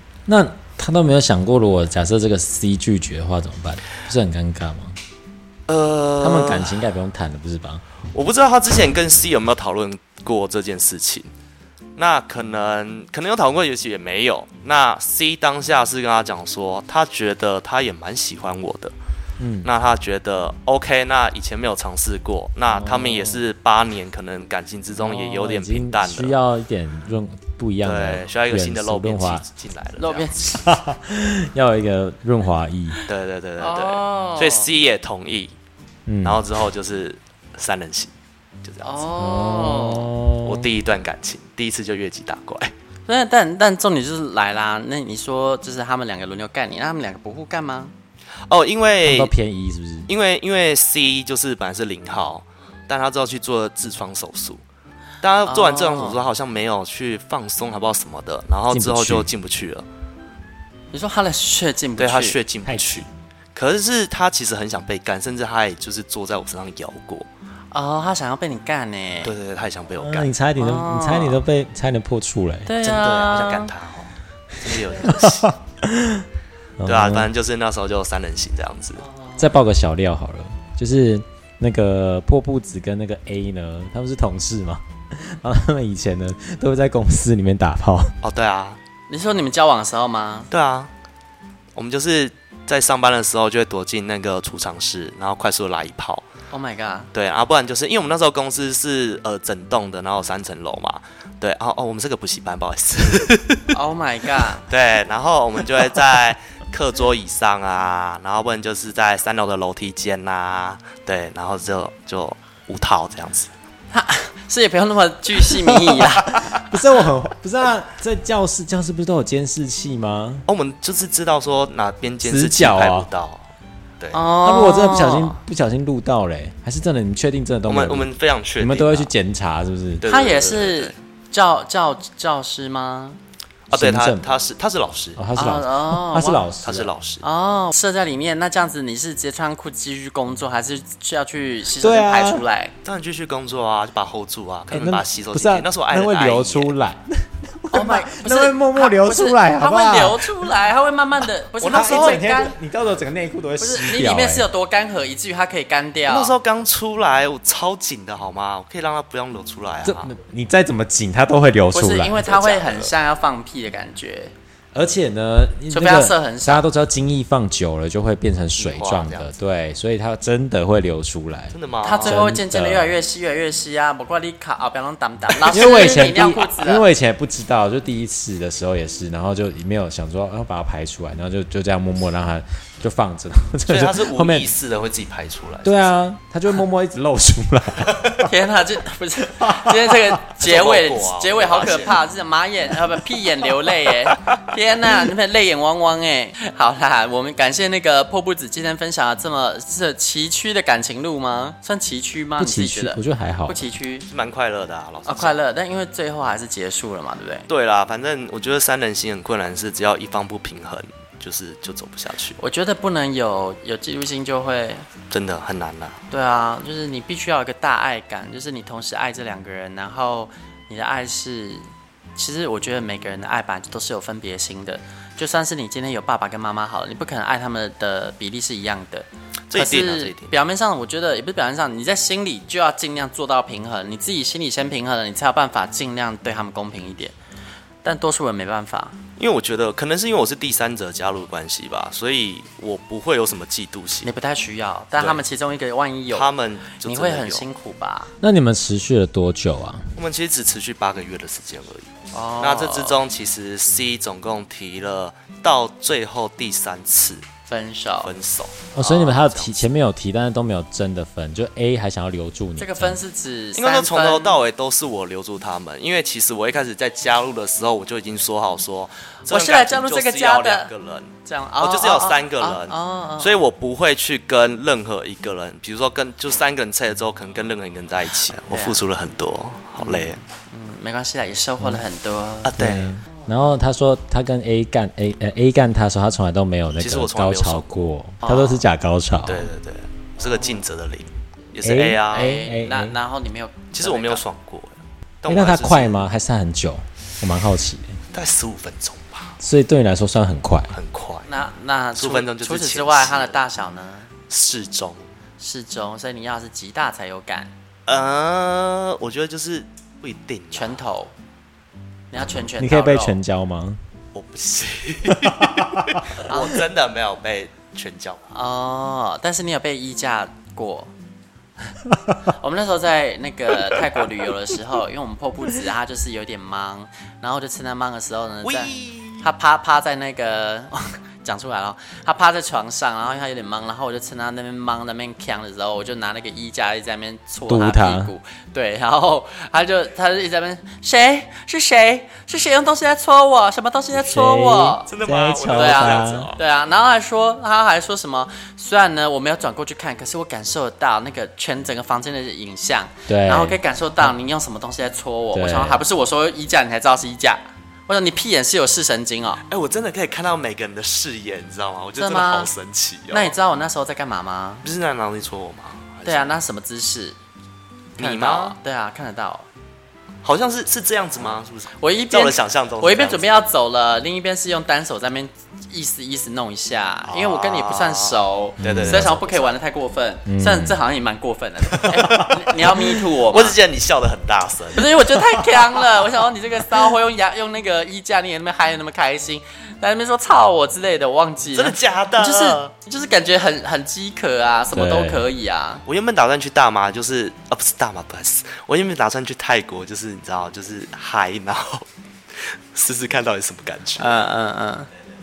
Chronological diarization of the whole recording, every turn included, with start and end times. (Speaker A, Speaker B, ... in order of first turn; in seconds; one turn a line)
Speaker A: 0.3-5.0
Speaker B: 5.7-6.8
Speaker A: 6.2-7.8
Speaker B: 8.1-11.3
Speaker B: 12.0-18.9
Speaker A: 19.4-19.7
Speaker B: 19.6-26.4
Speaker A: 22.7-23.4
Speaker A: 25.0-29.4
Speaker B: 27.8-30.3
Speaker C: 30.0-30.6
Speaker A: 30.6-33.0
Speaker B: 33.1-35.5
Speaker C: 33.6-34.7
Speaker A: 36.1-36.5
Speaker B: 36.2-38.9
Speaker C: 38.8-40.1
Speaker A: 39.2-40.7
Speaker B: 40.4-42.7
Speaker C: 43.1-47.9
Speaker B: 48.5-49.3
Speaker A: 49.0-50.1
Speaker B: 50.1-54.6
Speaker B: 55.2-59.9
Speaker C: 55.5-56.2
Speaker A: 58.7-59.3
Speaker C: 60.9-62.4
Speaker B: 62.0-67.3
Speaker A: 62.6-63.1
Speaker C: 67.7-69.3
Speaker B: 69.2-70.3
Speaker A: 70.0-72.7
Speaker C: 70.6-71.4
Speaker C: 72.7-73.7
Speaker B: 72.8-75.5
Speaker A: 75.0-76.3
Speaker A: 76.8-77.3
Speaker B: 76.8-79.0
Speaker A: 79.4-88.2
Speaker B: 88.2-88.8
Speaker C: 89.1-90.5
Speaker B: 90.5-90.9
Speaker B: 91.8-96.3
Speaker C: 96.5-97.1
Speaker B: 97.1-103.8
Speaker C: 103.7-104.7
Speaker B: 104.7-113.5
Speaker C: 113.9-116.7
Speaker A: 115.6-120.5
Speaker B: 120.5-123.5
Speaker A: 122.2-123.1
Speaker C: 124.1-125.4
Speaker A: 124.4-130.0
Speaker B: 127.7-129.1
Speaker B: 130.0-130.9
Speaker C: 130.1-133.2
Speaker B: 133.7-135.2
Speaker A: 133.7-134.3
Speaker A: 135.2-136.9
Speaker C: 135.4-136.4
Speaker B: 136.6-137.2
Speaker C: 137.2-142.7
Speaker A: 141.8-142.4
Speaker B: 142.8-146.8
Speaker A: 144.7-150.6
Speaker C: 147.7-152.5
Speaker B: 151.6-152.5
Speaker A: 151.6-154.5
Speaker C: 153.6-156.3
Speaker B: 156.1-160.1
Speaker A: 159.8-162.3
Speaker C: 161.7-164.3
Speaker B: 162.2-162.9
Speaker A: 164.7-172.9
Speaker C: 165.7-166.7
Speaker B: 168.6-169.3
Speaker B: 171.5-172.2
Speaker C: 171.8-176.8
Speaker A: 175.5-184.5
Speaker B: 183.7-185.9
Speaker A: 185.6-188.3
Speaker C: 188.2-204.1
Speaker A: 189.4-190.0
Speaker B: 190.4-192.0
Speaker A: 202.4-203.6
Speaker B: 204.1-205.3
Speaker C: 205.1-207.5
Speaker B: 207.5-212.4
Speaker C: 212.4-214.9
Speaker B: 215.1-216.0
Speaker C: 216.1-237.2
Speaker B: 229.5-230.3
Speaker C: 237.8-239.0
Speaker B: 239.2-244.1
Speaker C: 244.0-246.3
Speaker B: 246.1-247.4
Speaker C: 246.8-248.1
Speaker A: 248.2-250.0
Speaker B: 250.0-257.3
Speaker C: 252.1-253.0
Speaker C: 257.5-258.1
Speaker B: 258.0-258.7
Speaker A: 258.7-263.0
Speaker C: 258.8-259.6
Speaker C: 262.6-264.4
Speaker B: 263.6-280.2
Speaker C: 269.3-270.7
Speaker C: 271.2-273.4
Speaker C: 278.5-278.8
Speaker C: 279.8-282.6
Speaker B: 282.4-282.9
Speaker A: 282.6-289.5
Speaker B: 286.7-287.9
Speaker C: 288.2-288.6
Speaker B: 289.3-292.3
Speaker A: 291.6-293.0
Speaker C: 292.1-294.2
Speaker B: 293.7-296.0
Speaker A: 295.3-298.0
Speaker B: 298.1-299.4
Speaker A: 299.4-300.8
Speaker B: 300.7-301.3
Speaker C: 301.3-304.1
Speaker B: 302.0-303.4
Speaker B: 304.3-305.0
Speaker C: 305.4-307.5
Speaker B: 307.9-310.8
Speaker C: 310.5-311.1
Speaker C: 312.1-313.2
Speaker A: 312.2-313.8
Speaker B: 314.1-318.2
Speaker A: 315.1-316.1
Speaker C: 316.2-316.6
Speaker C: 318.3-320.9
Speaker A: 321.9-322.2
Speaker C: 322.3-344.9
Speaker B: 328.4-329.3
Speaker A: 337.5-338.1
Speaker A: 343.9-346.3
Speaker B: 344.9-346.4
Speaker C: 345.5-359.4
Speaker A: 353.1-354.1
Speaker A: 355.3-355.8
Speaker B: 359.5-363.4
Speaker C: 362.0-362.5
Speaker C: 363.1-364.6
Speaker B: 364.6-366.4
Speaker C: 366.1-367.2
Speaker B: 368.0-368.6
Speaker C: 368.0-369.5
Speaker B: 370.2-373.4
Speaker C: 371.8-383.6
Speaker B: 377.1-379.5
Speaker A: 378.6-379.1
Speaker A: 380.3-380.8
Speaker B: 381.7-385.0
Speaker C: 384.7-395.8
Speaker B: 391.6-392.7
Speaker A: 394.7-395.3
Speaker B: 395.9-401.9
Speaker B: 402.4-404.1
Speaker C: 404.0-404.9